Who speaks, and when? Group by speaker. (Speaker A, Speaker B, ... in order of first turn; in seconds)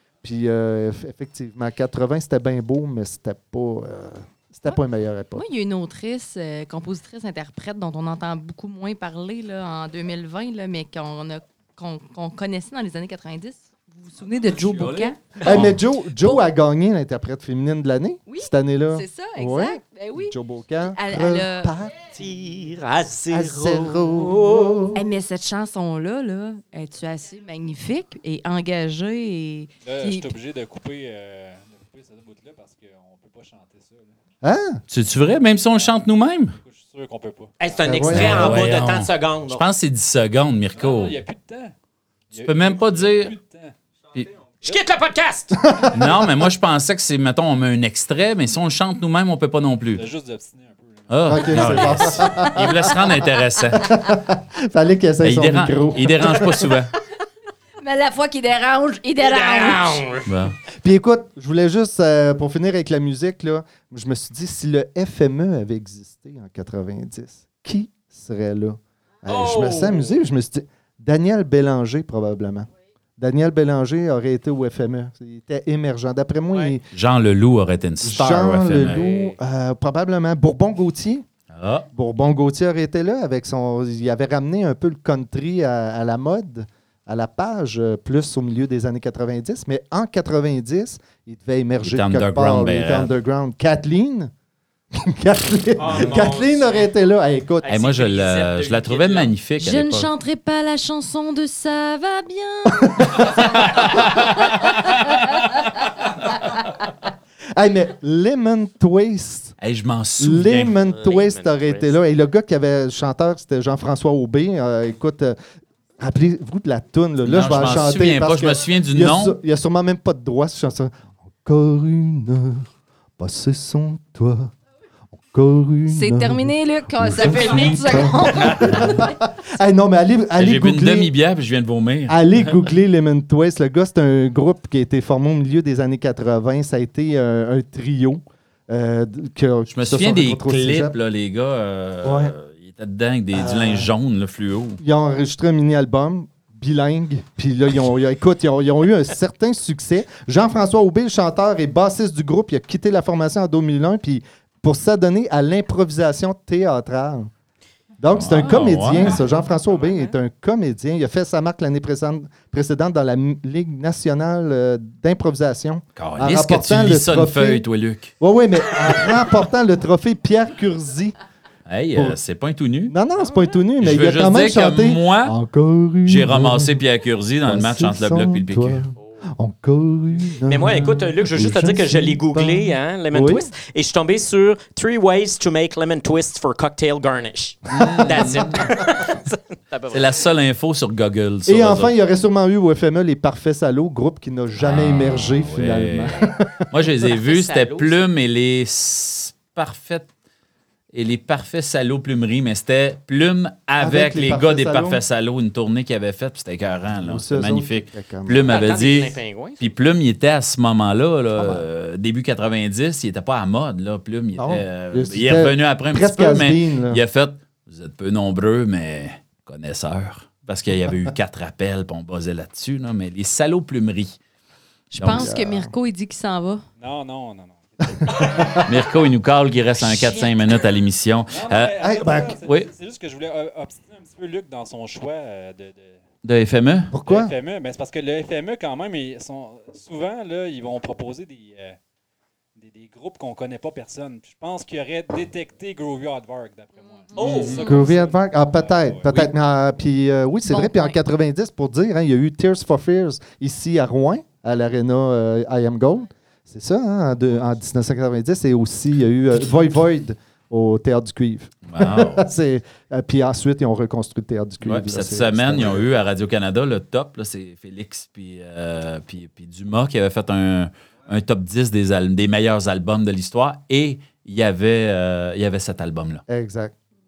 Speaker A: 0.2-5.4, 15.4-22.0, 23.2-25.0, 34.4-34.8, 37.9-38.6, 45.6-46.3, 51.3-56.7, 60.8-76.8, 78.0-81.2, 81.9-94.3, 94.9-97.7, 102.8-103.2, 107.5-109.5, 110.2-115.3, 116.0-124.5, 125.3-131.1, 132.1-140.9, 142.0-142.3, 143.3-143.9, 144.8-157.3, 158.0-167.6, 168.2-171.2, 172.9-176.8, 177.4-183.5, 187.7-188.7, 191.4-197.1, 203.8-205.0, 207.0-208.6, 211.4-211.7, 214.3-217.0, 225.0-225.7, 228.0-228.6, 231.8-232.4, 236.9-237.3, 247.6-265.8, 276.3-276.7
Speaker B: 5.3-15.7, 18.3-21.7, 24.9-30.4, 57.8-60.1, 99.6-105.2, 125.9-129.1, 224.9-226.6, 229.8-230.3, 247.1-247.7, 250.5-250.9
Speaker C: 14.5-15.8, 34.9-36.6, 38.1-41.2, 42.4-43.3, 45.9-50.1, 51.1-53.8, 55.2-56.9, 60.3-60.5, 76.9-79.3, 81.5-81.9, 91.8-93.1, 97.7-100.1, 103.6-104.6, 109.6-110.8, 117.2-119.3, 128.3-129.0, 130.4-132.7, 139.7-144.8, 158.2-159.2, 166.0-168.1, 171.7-172.9, 173.8-175.3, 176.0-178.8, 187.7-188.6, 189.9-191.9, 194.6-200.1, 200.9-224.2, 224.9-225.3, 228.7-231.8, 232.4-232.7, 236.2-236.9, 247.2-247.6, 261.7-262.2, 264.6-276.2
Speaker D: 22.1-24.7, 37.6-39.6, 44.6-45.6, 59.2-60.3, 69.2-70.2, 76.5-76.7, 95.8-96.9, 97.6-99.3, 110.9-112.0, 180.4-190.2, 197.2-198.1, 208.5-209.6, 247.1-247.6
Speaker E: 29.8-34.1, 35.3-36.0, 36.5-38.4, 40.7-41.7, 42.3-44.3, 49.9-52.5, 226.8-228.7, 231.3-236.0, 237.0-241.8, 242.6-249.2